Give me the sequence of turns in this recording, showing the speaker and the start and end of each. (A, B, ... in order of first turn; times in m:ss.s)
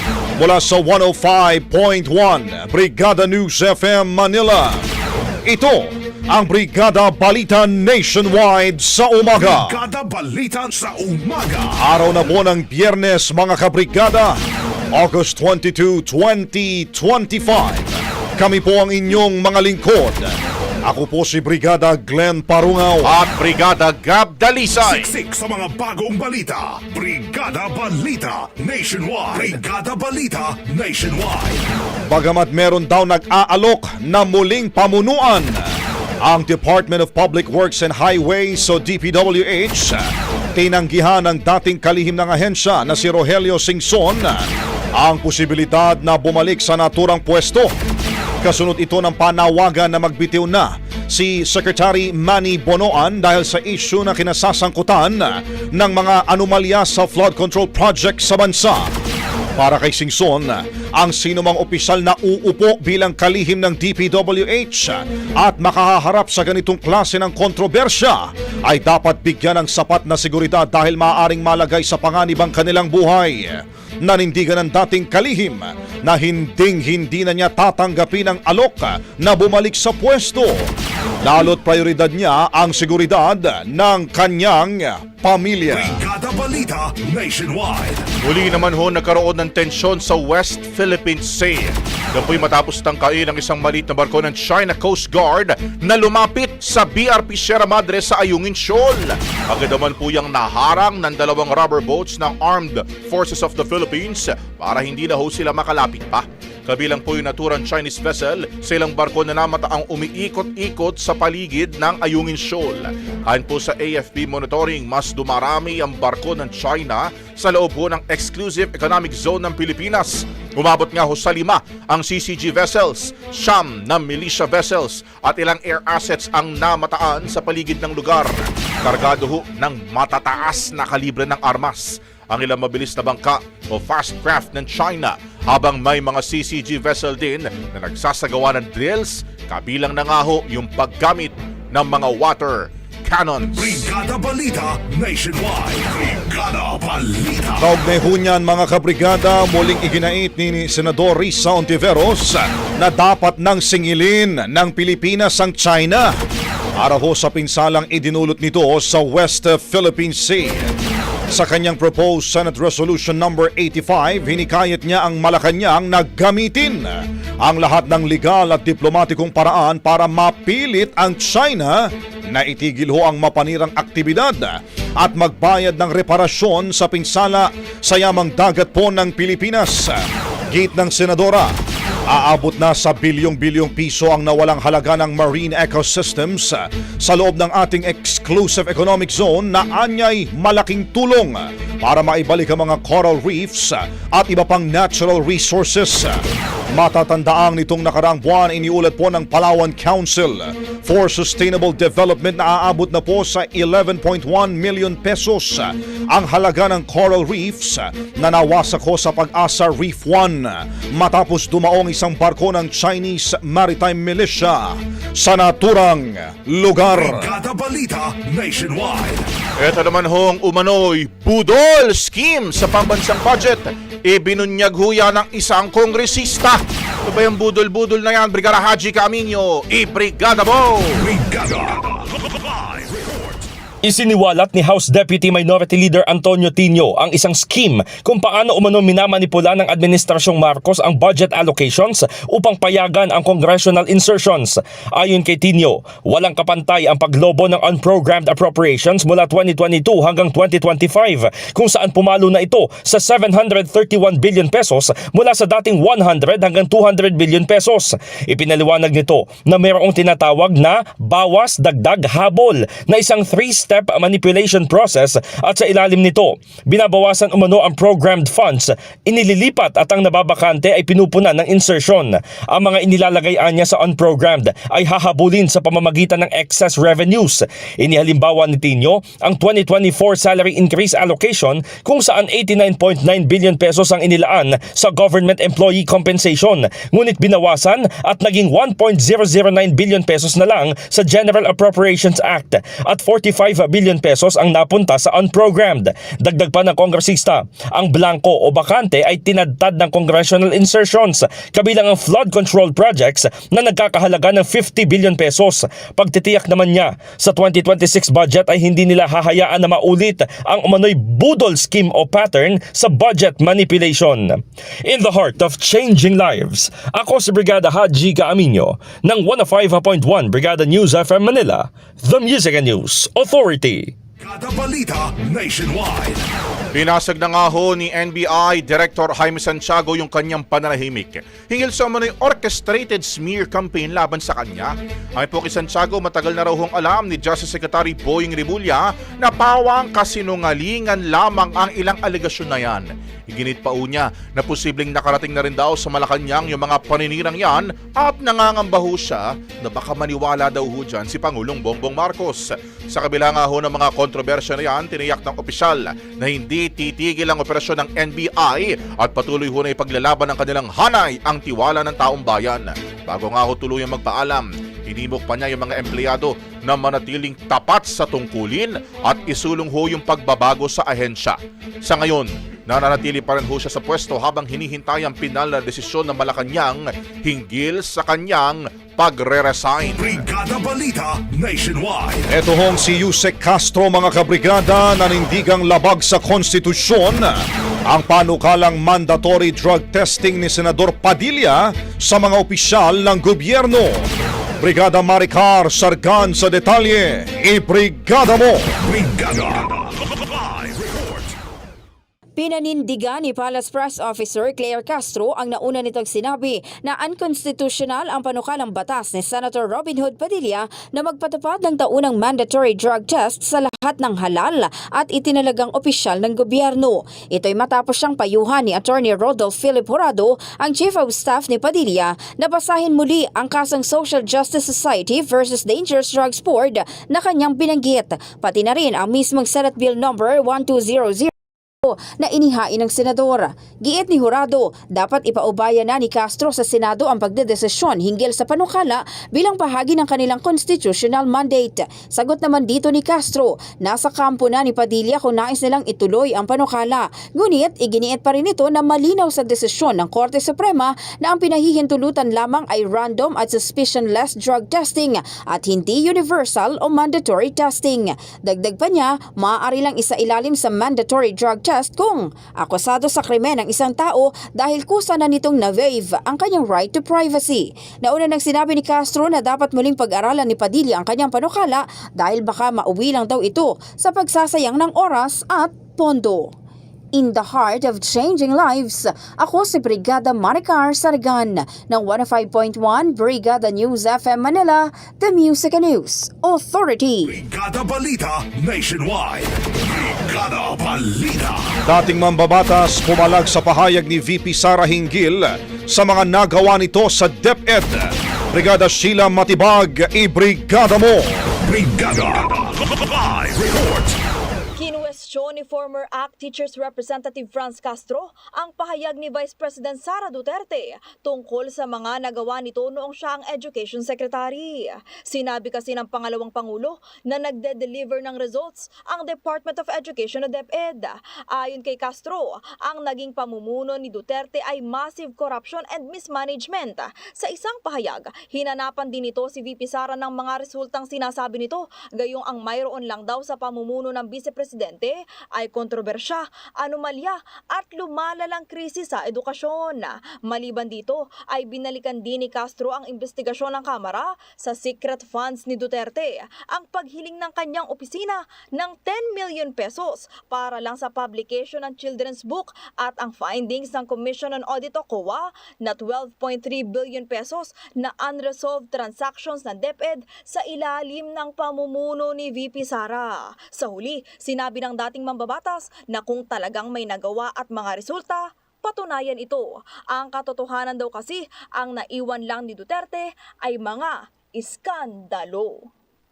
0:00.4-0:04.8 A
0:05.4-0:09.8 A
0:09.3-0:11.8 B
0:11.8-0:14.4 A
0:14.9-0:20.3 A
0:20.9-0:23.1 A
0:23.0-0:25.1 C
0:24.8-0:31.6 B
0:32.1-0:35.6 A
0:36.2-0:40.0 A
0:40.5-0:44.4 A
0:45.0-0:47.7 A
0:48.4-0:58.8 A
0:59.6-1:20.5 A
1:21.2-1:26.0 A
1:25.7-1:28.0 B
1:28.2-2:23.9 C
2:23.5-2:27.7 B
2:27.6-2:36.1 A
2:36.8-2:40.7 A
2:41.3-2:51.8 A
2:52.3-2:54.5 A
2:55.0-3:00.0 A
3:00.5-3:01.5 A
3:02.1-3:16.2 A
3:16.7-3:37.3 A
3:36.9-3:39.2 B
3:39.6-3:51.0 C
3:51.0-3:52.0 B
3:53.0-3:53.4 B
3:53.8-5:23.9 D
5:24.2-5:26.2 B
5:26.7-6:20.2 C
6:20.0-6:22.2 B
6:22.3-6:27.3 A
6:27.9-6:34.0 A
6:34.6-6:38.6 A
6:38.8-6:41.3 B
6:42.4-7:11.3 E
7:11.8-7:56.5 E
7:57.1-8:07.4 E
8:07.3-8:11.7 B
8:11.8-8:21.3 A
8:21.6-8:24.2 B
8:24.8-8:34.7 F
8:35.4-8:41.0 F
8:41.6-8:42.4 F
8:42.9-8:55.1 F
8:55.6-9:23.2 F
9:23.8-9:29.6 F
9:30.2-9:35.7 F